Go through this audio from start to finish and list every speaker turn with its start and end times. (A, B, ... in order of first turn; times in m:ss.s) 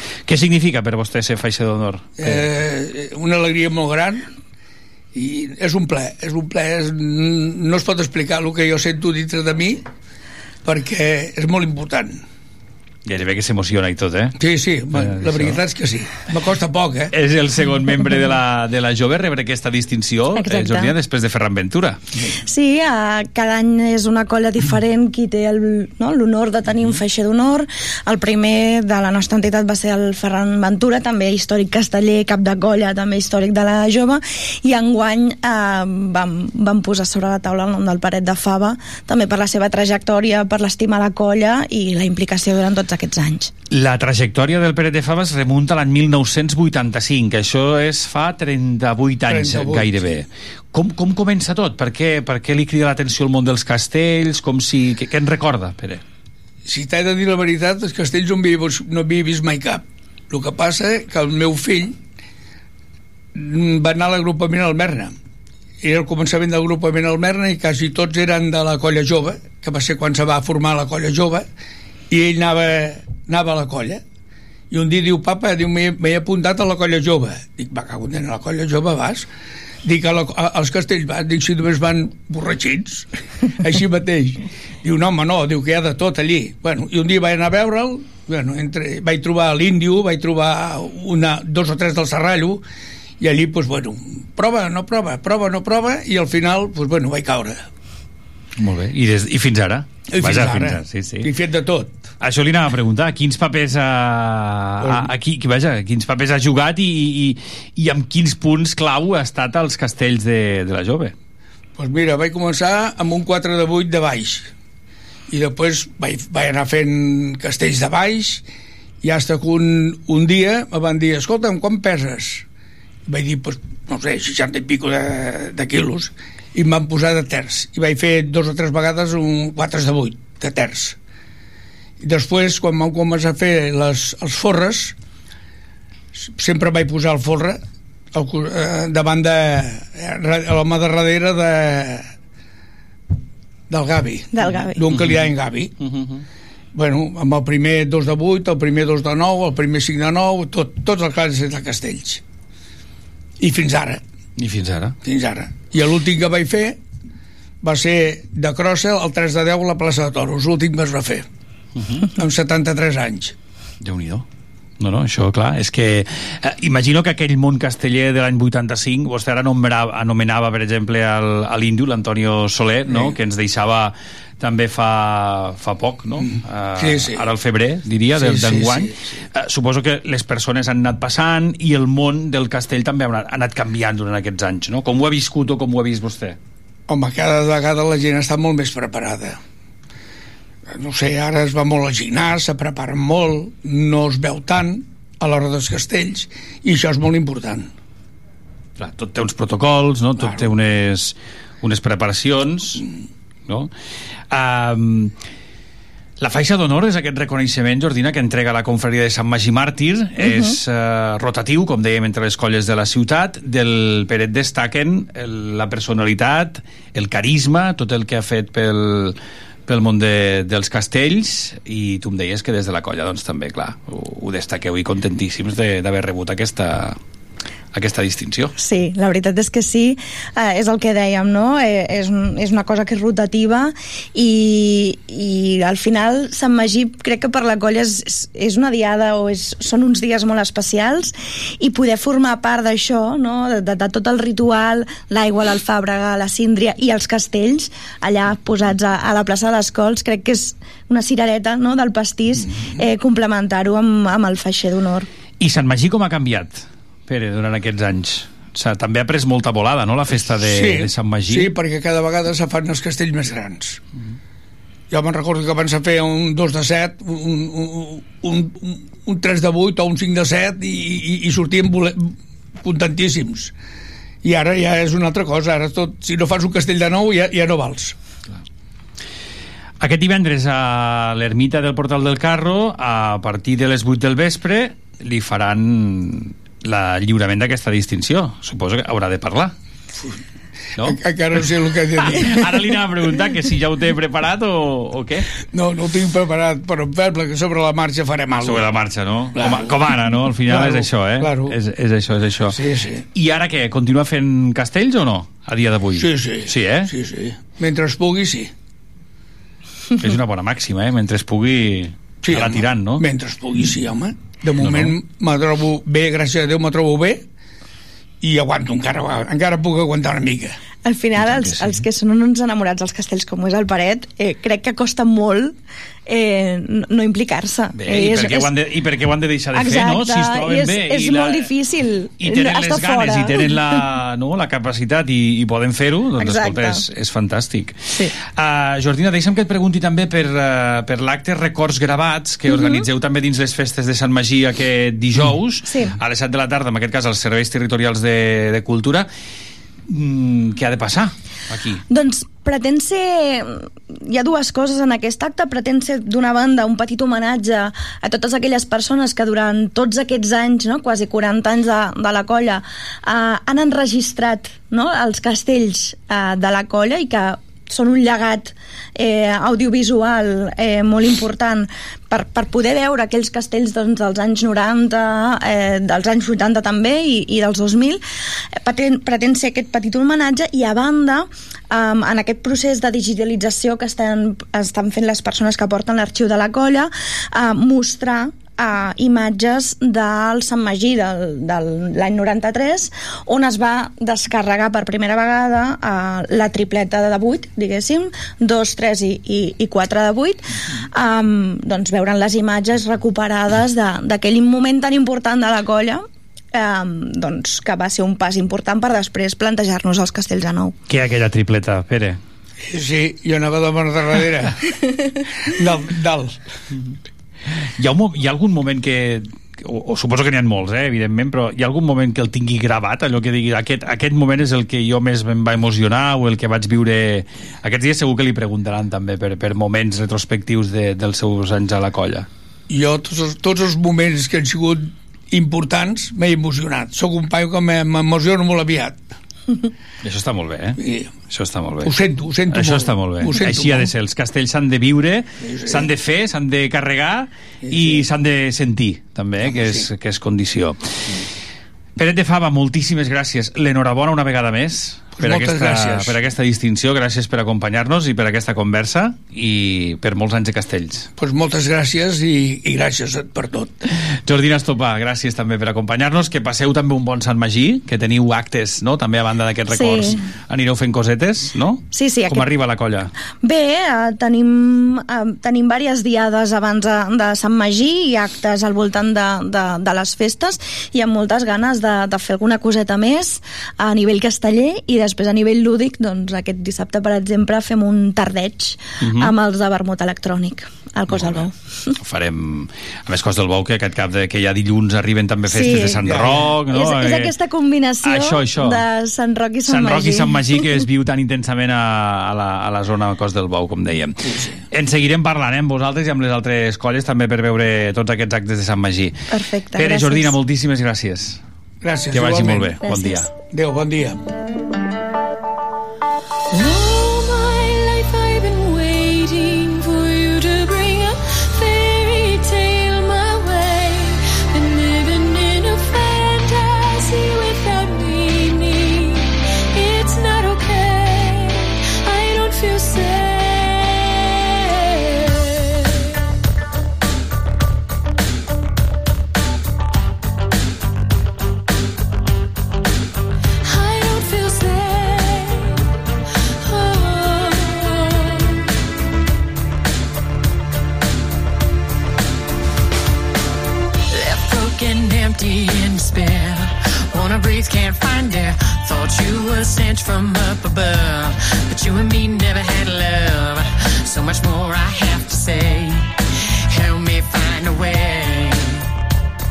0:00.3-0:02.4 A
0:02.2-0:04.2 B
0:05.1-0:09.8 B
0:10.6-0:12.2 B
0:13.0-0:14.3 A
0:14.4-0:17.1 B
0:15.0-0:15.6 A
0:17.1-0:22.0 A
0:20.4-0:20.9 C
0:22.5-0:43.5 C
0:43.7-0:56.0 A
0:49.3-0:50.1 B
0:56.7-1:02.0 B
1:03.4-1:05.1 B
1:05.8-1:11.4 B
1:12.1-1:14.0 B
1:14.7-1:19.3 B
1:19.8-1:23.1 B
1:23.6-1:32.6 B
1:33.2-1:37.6 B
1:38.6-1:41.3 A
1:40.1-1:41.9 B
1:42.2-1:51.1 A
1:44.8-1:45.1 B
1:51.8-1:54.5 B
1:55.3-1:58.4 B
1:59.0-2:02.4 B
2:03.1-2:11.0 B
2:12.0-2:14.9 B
2:16.2-2:17.6 B
2:18.1-2:22.1 B
2:23.7-2:25.7 B
2:24.3-2:24.9 C
2:24.9-2:25.3 A
2:25.8-2:26.2 A
2:26.7-2:32.2 B
2:33.4-2:34.0 B
2:34.4-2:34.9 A
2:35.0-2:36.8 B
2:37.6-2:41.2 B
2:42.1-2:43.3 B
2:43.8-2:44.2 A
2:44.8-3:06.4 A
2:52.9-2:53.1 B
2:56.2-2:57.2 B
2:58.2-2:59.2 B
3:06.9-3:09.4 B
3:10.7-3:17.7 B
3:18.8-3:22.8 A
3:24.3-3:25.1 A
3:26.2-3:39.2 A
3:30.2-3:30.6 C
3:39.7-3:47.0 A
3:47.7-3:48.5 A
3:48.6-4:15.1 C
4:15.4-4:21.5 A
4:20.4-4:23.8 B
4:24.9-4:32.1 B
4:32.6-4:33.5 B
4:34.2-4:37.9 B
4:39.8-4:49.5 A
4:50.8-4:52.5 B
4:52.0-4:55.2 A
4:55.5-4:58.6 B
4:58.4-5:02.6 A
4:59.4-4:59.8 B
5:00.4-5:01.6 B
5:02.5-5:03.0 B
5:03.1-5:06.9 A
5:06.0-5:08.5 B
5:10.0-5:13.0 A
5:12.2-5:17.2 B
5:14.6-5:14.9 A
5:18.2-5:20.6 B
5:20.8-5:25.6 C
5:21.2-5:21.8 A
5:26.1-5:28.5 C
5:27.7-5:31.5 A
5:29.5-5:33.8 C
5:32.2-5:49.1 A
5:36.2-5:36.8 C
5:42.5-5:42.9 C
5:45.6-5:45.9 C
5:49.9-5:51.8 A
5:51.9-6:18.0 C
6:18.6-6:40.4 C
6:40.9-6:50.7 C
6:50.9-6:52.2 A
6:52.7-6:54.6 B
6:55.6-6:56.4 B
6:57.8-7:12.3 A
7:12.7-7:19.0 B
7:20.0-7:21.9 A
7:20.8-7:21.1 B
7:21.8-7:23.9 B
7:22.5-7:30.8 A
7:25.4-7:25.9 B
7:27.6-7:28.0 B
7:29.4-7:29.9 B
7:32.0-7:41.1 A
7:35.2-7:36.2 B
7:41.2-7:43.7 B
7:44.2-7:53.1 A
7:49.7-7:50.2 C
7:51.9-7:52.5 C
7:53.4-8:11.5 C
8:09.0-8:09.3 A
8:11.1-8:11.4 A
8:12.0-8:17.3 A
8:15.5-8:20.8 C
8:18.0-8:18.8 A
8:19.6-8:29.2 A
8:24.2-8:24.6 B
8:29.3-8:30.3 C
8:29.8-8:31.4 A
8:31.8-8:32.8 B
8:32.1-8:33.3 A
8:32.8-8:33.3 C
8:33.5-8:34.2 B
8:36.5-8:56.0 D
9:03.6-9:05.8 D
9:06.6-9:08.6 D
9:14.1-9:26.1 D
9:26.7-9:28.8 D